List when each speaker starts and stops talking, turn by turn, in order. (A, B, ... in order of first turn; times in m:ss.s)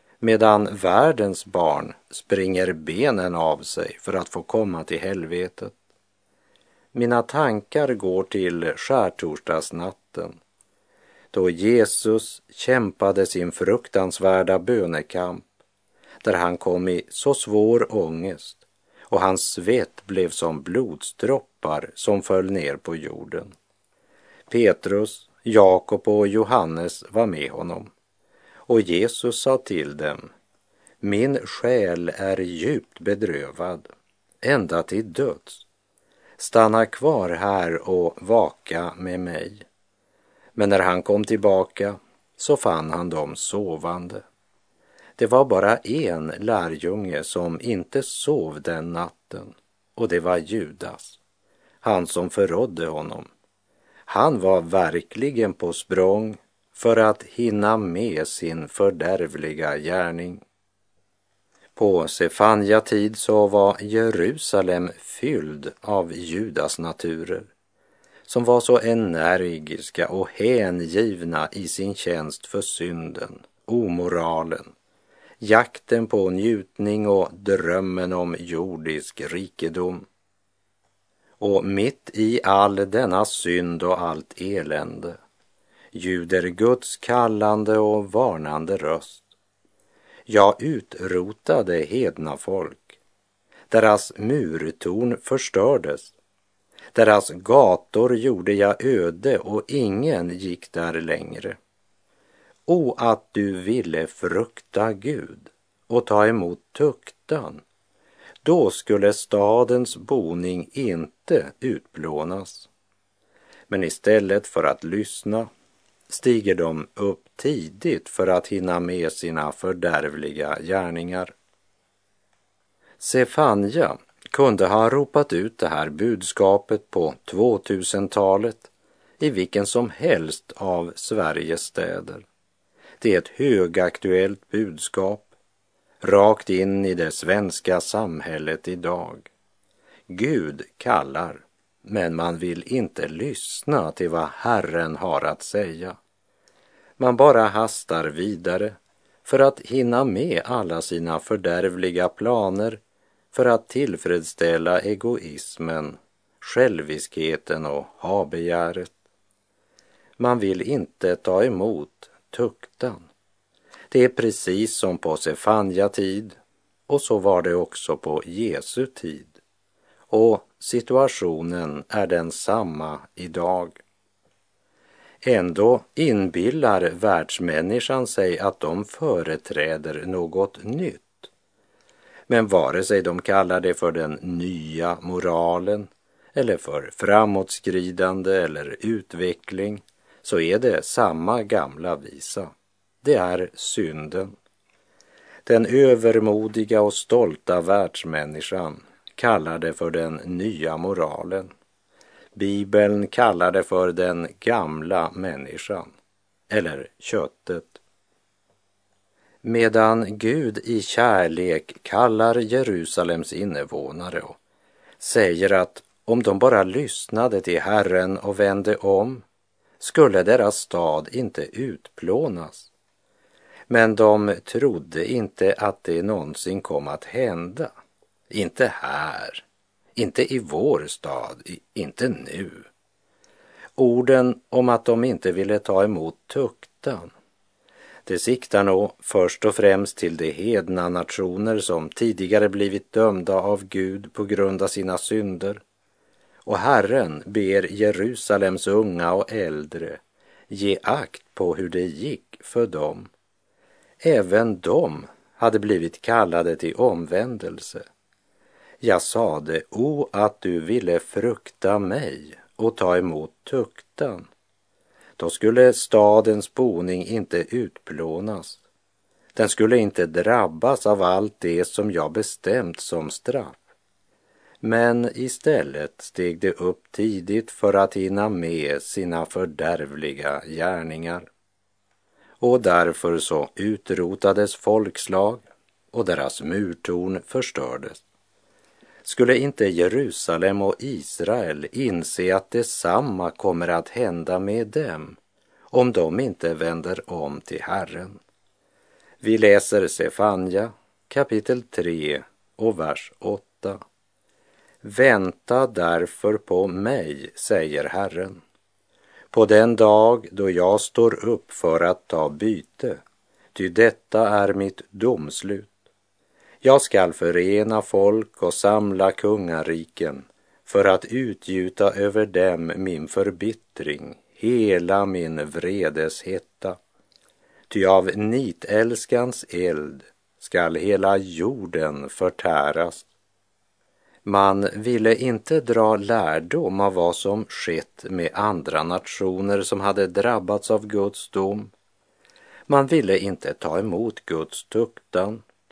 0:00.2-0:05.8 A
0:06.9-0:10.4 A
0:11.3-0:15.5 A
0:16.2-0:23.5 A
0:24.5-0:27.9 A
0:28.7-0:30.3 A
0:31.0-0:33.9 A
0:34.4-0:35.6 A
0:36.4-0:39.6 A
0:40.5-0:44.2 A
0:45.2-0:51.2 A
0:51.8-0:53.3 A
0:54.1-1:00.4 A
1:01.8-1:07.5 A
1:08.3-1:14.7 A
1:15.4-1:20.1 A
1:21.4-1:25.2 A
1:25.9-1:29.2 A
1:30.3-1:33.0 A
1:33.7-1:36.1 A
1:36.9-1:41.6 A
1:42.7-1:47.6 A
1:48.4-1:52.7 A
1:53.7-1:55.5 A
1:56.1-2:01.3 A
2:03.0-2:12.2 A
2:13.0-2:15.3 A
2:16.0-2:19.3 A
2:20.1-2:26.0 A
2:27.0-2:32.8 A
2:33.3-2:38.9 A
2:40.2-2:43.1 A
2:43.9-2:46.4 A
2:46.9-2:49.4 A
2:50.1-2:53.8 A
2:55.2-3:01.3 A
3:02.3-3:14.3 A
3:15.4-3:21.5 A
3:22.3-3:25.9 A
3:26.5-3:27.8 A
3:29.4-3:34.4 A
3:35.0-3:39.2 A
3:39.8-3:42.7 A
3:43.7-3:47.7 A
3:48.3-3:49.4 A
3:50.0-3:52.7 A
3:53.8-3:57.1 A
3:58.0-4:05.6 A
4:06.4-4:13.1 A
4:14.0-4:17.8 A
4:18.8-4:24.3 A
4:25.2-4:28.6 A
4:29.3-4:33.6 A
4:34.6-4:41.3 A
4:42.4-4:48.0 A
4:49.0-4:55.2 A
4:55.7-4:58.2 A
4:59.2-5:03.8 A
5:04.8-5:08.4 A
5:09.3-5:13.0 A
5:13.5-5:15.7 A
5:16.6-5:26.8 A
5:27.7-5:33.1 A
5:34.2-5:41.7 A
5:42.7-5:45.4 A